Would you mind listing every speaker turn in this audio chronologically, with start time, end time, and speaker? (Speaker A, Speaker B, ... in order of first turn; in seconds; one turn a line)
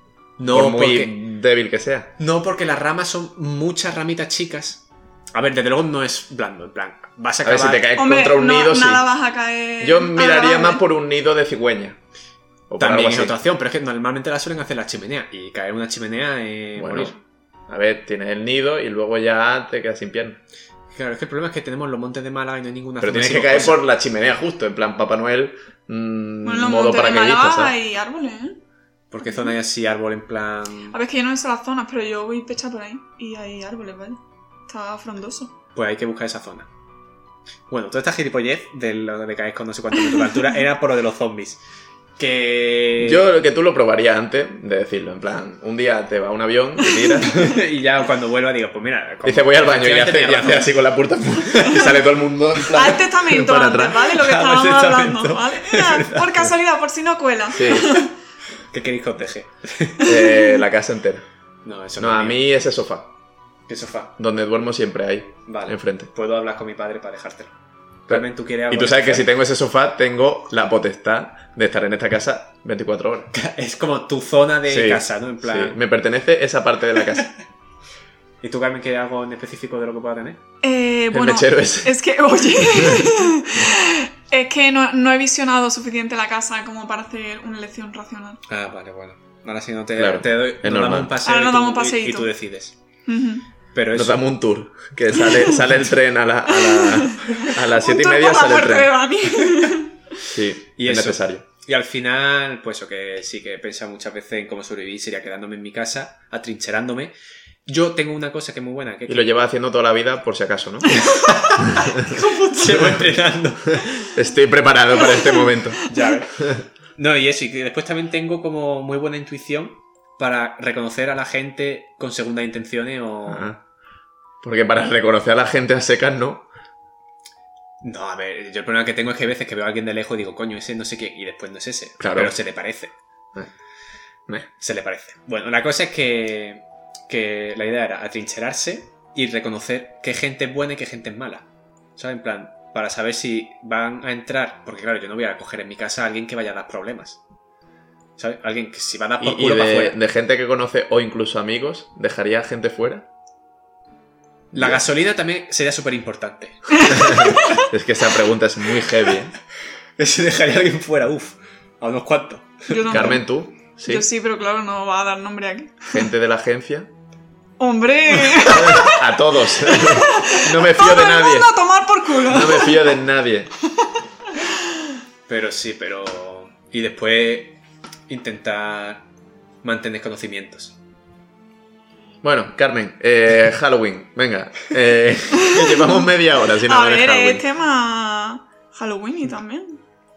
Speaker A: 0.4-1.2
Speaker B: 0.5-2.1
Speaker A: 2.2-7.9
Speaker B: 7.4-9.1
Speaker C: 8.0-10.8
Speaker B: 9.8-12.0
Speaker B: 12.7-13.4
Speaker A: 12.8-17.2
Speaker B: 16.8-17.1
Speaker B: 17.7-20.4
Speaker A: 20.9-23.8
Speaker B: 23.0-27.7
Speaker C: 26.4-28.6
Speaker A: 29.1-30.9
Speaker C: 29.2-29.5
Speaker C: 30.9-35.5
Speaker A: 35.7-36.7
Speaker A: 37.7-41.6
Speaker A: 42.2-43.2
Speaker B: 43.0-47.6
Speaker C: 46.8-47.4
Speaker A: 47.2-50.8
Speaker B: 49.2-54.1
Speaker C: 52.7-58.1
Speaker A: 54.1-56.5
Speaker B: 57.5-58.0
Speaker A: 58.7-60.1
Speaker B: 60.0-61.2
Speaker C: 60.0-60.5
Speaker A: 61.6-62.5
Speaker B: 62.0-63.1
Speaker A: 63.7-64.1
Speaker B: 64.2-66.1
Speaker A: 65.5-67.5
Speaker A: 68.1-69.3
Speaker B: 68.1-73.3
Speaker A: 73.3-75.8
Speaker B: 74.7-77.3
Speaker A: 78.4-80.4
Speaker C: 80.6-88.4
Speaker B: 81.1-82.0
Speaker B: 82.6-83.1
Speaker A: 88.5-92.7
Speaker B: 90.0-91.1
Speaker C: 91.2-92.3
Speaker C: 93.1-93.4
Speaker A: 93.7-94.3
Speaker B: 93.9-98.9
Speaker C: 96.5-99.9
Speaker B: 100.3-101.4
Speaker A: 100.8-107.1
Speaker A: 107.7-109.3
Speaker B: 109.1-111.1
Speaker A: 110.9-113.9
Speaker C: 111.0-111.4
Speaker C: 112.0-112.7
Speaker B: 114.0-115.8
Speaker C: 115.0-116.1
Speaker A: 115.9-116.4
Speaker A: 117.0-123.5
Speaker B: 123.3-123.6
Speaker B: 124.4-126.5
Speaker A: 127.8-132.9
Speaker B: 132.0-132.3
Speaker A: 134.5-147.2
Speaker A: 148.2-150.0
Speaker B: 149.2-153.1
Speaker B: 154.5-154.8
Speaker A: 154.5-157.3
Speaker C: 156.7-157.7
Speaker B: 156.9-159.3
Speaker A: 160.0-163.2
Speaker C: 162.7-166.0
Speaker B: 162.9-164.1
Speaker B: 165.9-166.9
Speaker C: 167.6-172.9
Speaker B: 168.4-171.5
Speaker B: 172.2-173.5
Speaker A: 175.3-179.0
Speaker A: 179.6-180.8
Speaker B: 182.2-187.4
Speaker C: 185.5-186.1
Speaker C: 186.6-189.8